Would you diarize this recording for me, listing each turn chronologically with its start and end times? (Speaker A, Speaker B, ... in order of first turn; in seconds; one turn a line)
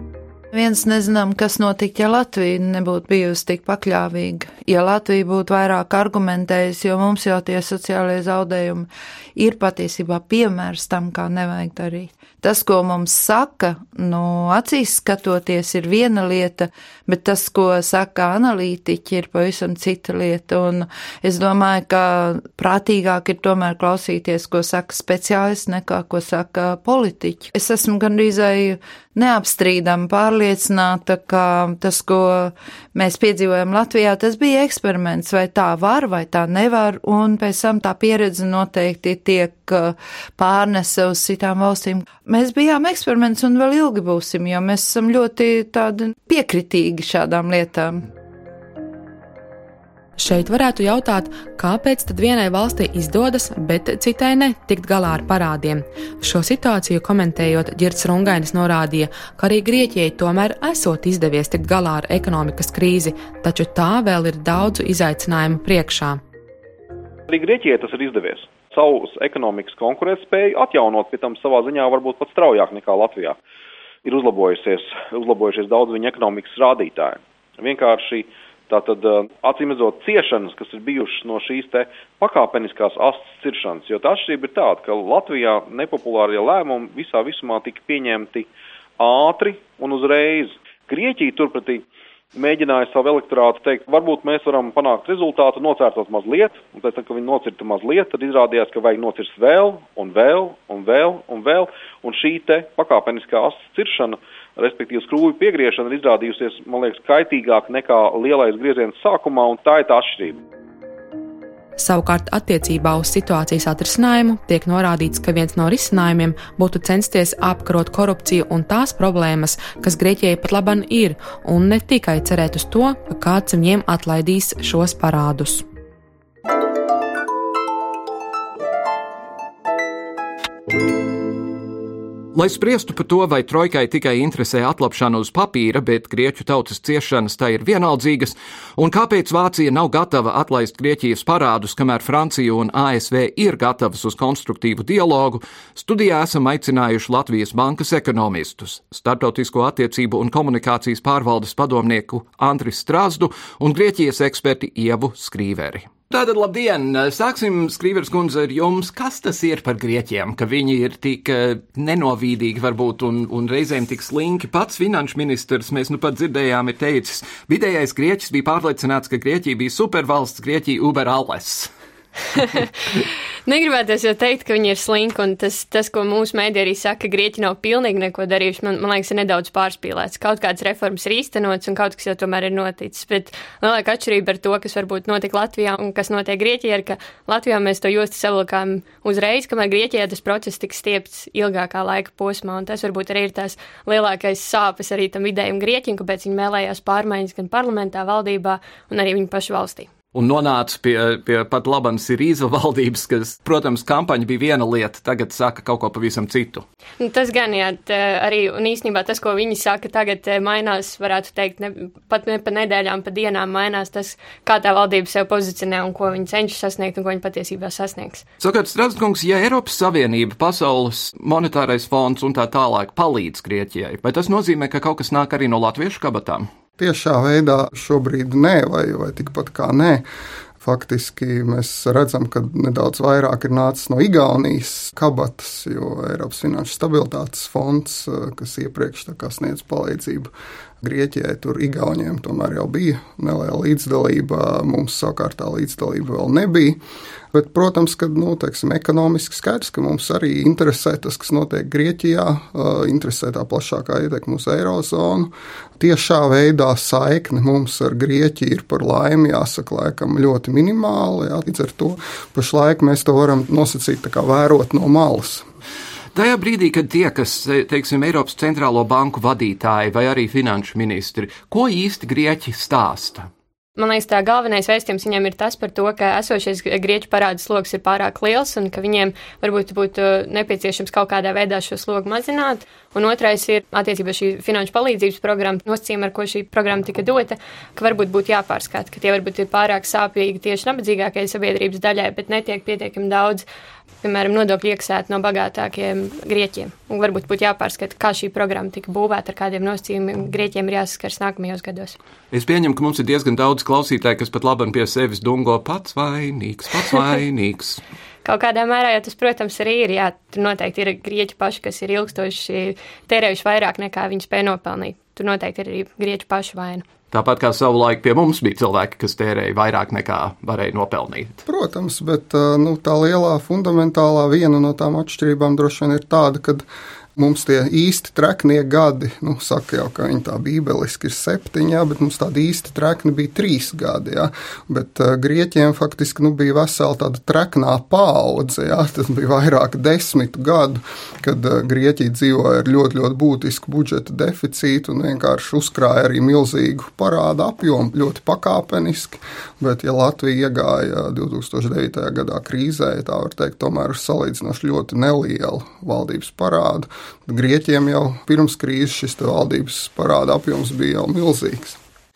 Speaker A: 0.5-48.1
Speaker B: 50.2-66.2
Speaker C: 67.3-73.4
Speaker C: 74.0-110.4
Speaker B: 111.8-125.6
Speaker D: 132.3-171.7
Speaker E: 172.4-172.6
Speaker E: 173.5-199.9
Speaker D: 200.1-206.7
Speaker E: 207.0-218.2
Speaker D: 218.4-226.5
Speaker F: 226.8-230.1
Speaker F: 230.6-240.3
Speaker F: 240.8-246.8
Speaker F: 247.3-265.5
Speaker D: 266.1-273.3
Speaker E: 273.8-293.4
Speaker E: 294.0-301.9
Speaker D: 302.3-307.8
Speaker E: 308.2-316.9
Speaker D: 317.1-321.4
Speaker F: 321.4-326.6
Speaker F: 327.2-361.8